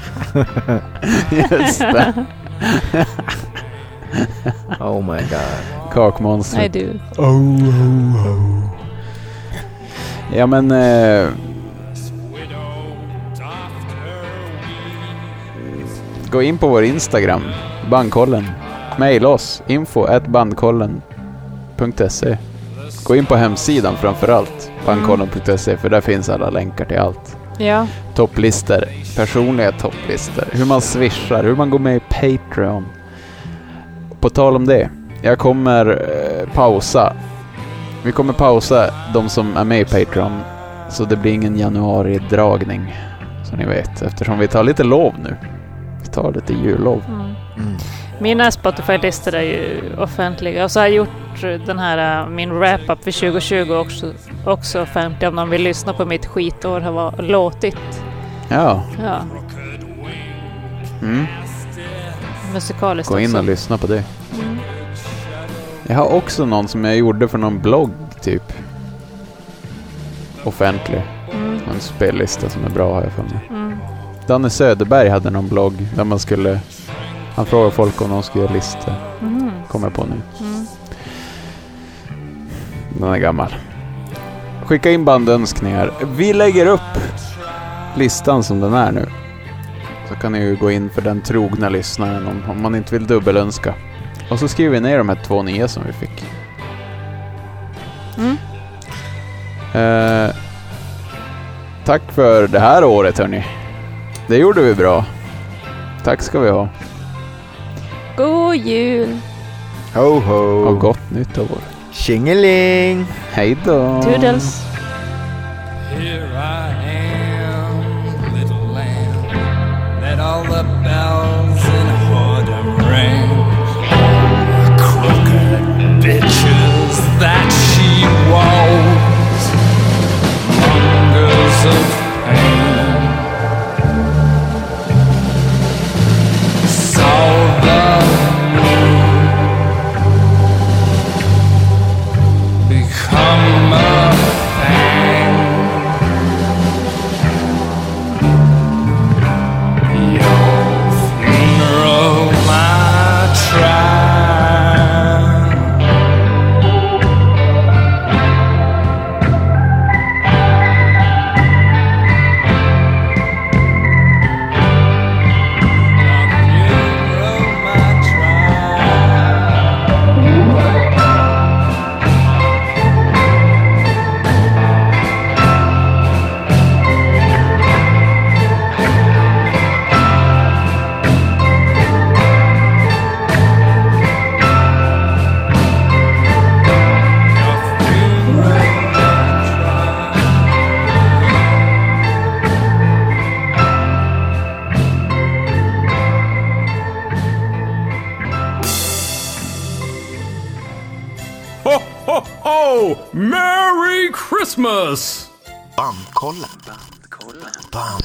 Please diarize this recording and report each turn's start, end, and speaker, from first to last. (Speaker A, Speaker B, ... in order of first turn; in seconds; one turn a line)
Speaker A: 1.1-3.0
Speaker B: 4.8-5.8
Speaker A: 5.8-8.7
Speaker C: 6.5-7.0
Speaker A: 10.3-11.8
Speaker D: 12.9-14.7
Speaker A: 15.6-21.1
Speaker A: 21.7-33.1
Speaker C: 24.9-25.2
Speaker C: 27.6-27.9
Speaker A: 34.2-37.2
Speaker A: 38.0-45.4
Speaker A: 46.0-47.1
Speaker C: 47.1-47.4
Speaker B: 47.6-47.9
Speaker C: 48.1-58.0
Speaker A: 58.5-59.0
Speaker C: 59.0-59.3
Speaker D: 59.5-60.9
Speaker A: 61.0-61.3
Speaker C: 62.4-63.5
Speaker A: 63.0-64.1
Speaker C: 64.3-64.7
Speaker D: 65.0-65.5
Speaker A: 65.8-68.6
Speaker A: 70.4-73.6
Speaker C: 71.3-71.7
Speaker C: 73.5-73.9
Speaker A: 74.3-80.3
Speaker C: 79.2-79.7
Speaker C: 80.3-80.7
Speaker A: 82.9-83.6
Speaker A: 84.6-87.4
Speaker A: 87.9-89.1
Speaker A: 90.0-96.3
Speaker C: 98.2-98.4
Speaker A: 99.7-100.3
Speaker A: 101.8-103.5
Speaker A: 104.3-105.1
Speaker A: 106.0-106.7
Speaker C: 108.2-109.2
Speaker B: 109.9-110.9
Speaker A: 110.6-111.7
Speaker B: 111.9-113.1
Speaker A: 113.3-114.6
Speaker C: 114.0-114.6
Speaker D: 115.8-119.4
Speaker D: 119.9-129.5
Speaker D: 130.4-133.3
Speaker D: 136.6-139.7
Speaker D: 142.7-145.9
Speaker D: 149.9-155.7
Speaker D: 166.0-169.7
Speaker D: 187.3-191.5
Speaker E: 201.6-205.3